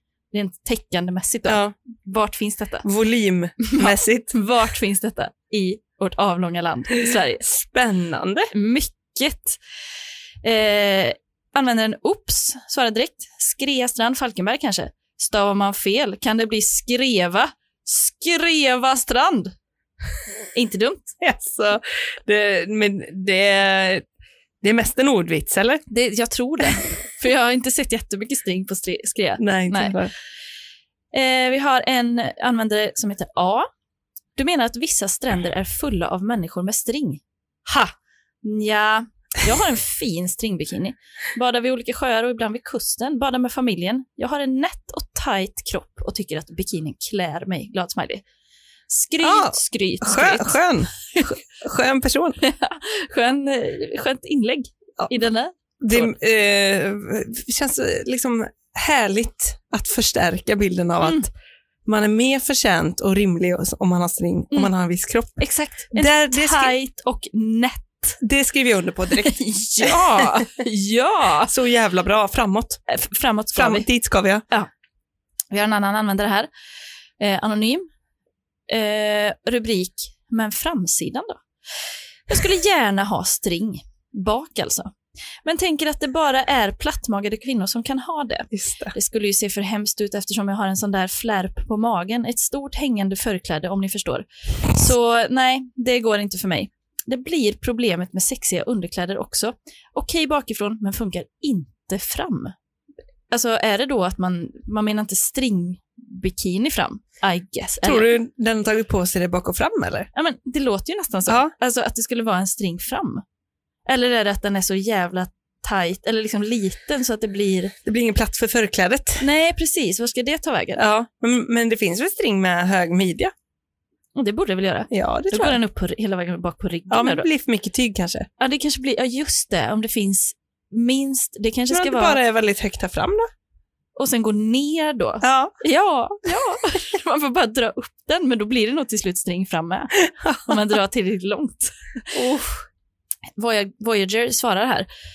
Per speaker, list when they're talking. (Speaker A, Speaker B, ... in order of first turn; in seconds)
Speaker A: 0.3-2.9, 3.6-7.5, 8.5-9.6, 10.4-19.5, 20.5-21.1, 25.9-30.0, 31.1-33.7, 34.4-48.2, 48.9-50.6, 52.4-56.1, 65.4-68.2, 69.1-71.5, 72.9-73.9, 75.5-76.5, 77.2-77.9, 78.7-81.4, 82.3-84.9, 85.4-102.5, 103.3-108.1, 110.1-113.2, 113.8-117.7, 119.2-120.8, 124.2-127.3, 128.4-132.2, 133.9-142.4, 143.4-144.9
Speaker B: 1.5-1.7, 2.8-4.3, 7.5-8.5, 21.2-24.0, 24.6-25.8, 29.4-30.1, 49.2-52.4, 55.8-61.3, 61.9-65.4, 65.9-66.7, 68.2-70.5, 71.5-72.8, 73.5-74.4, 88.5-88.9, 107.8-110.1, 117.8-119.2, 120.8-123.3, 124.9-125.6, 126.9-128.3, 131.7-133.3, 135.2-135.6, 140.2-140.5, 142.1-142.6